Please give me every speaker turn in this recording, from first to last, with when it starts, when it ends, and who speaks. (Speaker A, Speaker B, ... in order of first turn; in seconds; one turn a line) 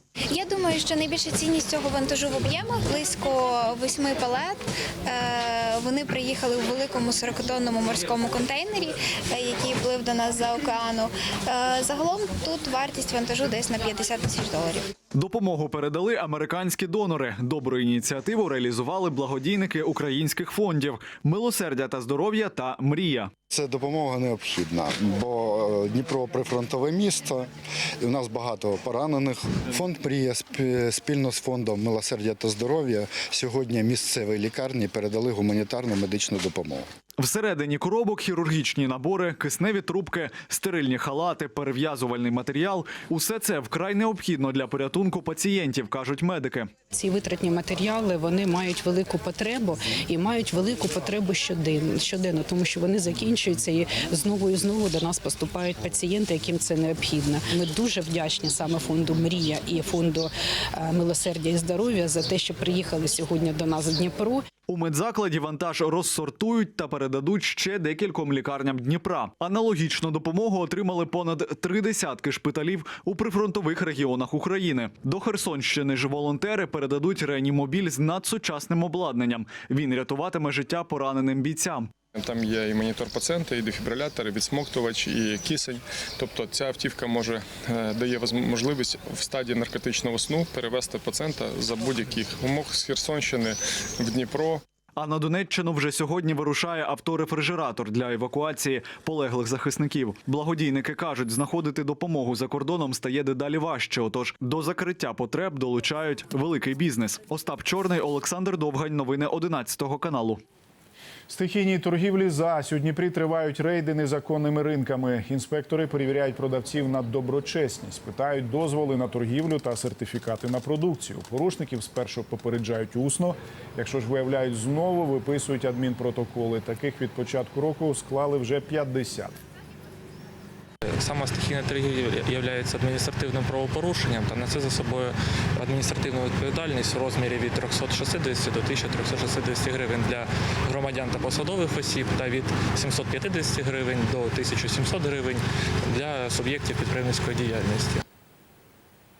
Speaker A: 0.3-14.9
Speaker B: 15.1-23.3
Speaker C: 23.5-27.5
Speaker C: 28.0-36.9
Speaker B: 37.2-46.7
Speaker D: 46.9-64.5
Speaker B: 64.7-81.9
Speaker E: 82.2-94.6
Speaker B: 95.0-110.4
Speaker F: 111.3-129.3
Speaker G: 131.0-145.4
Speaker G: 145.9-148.0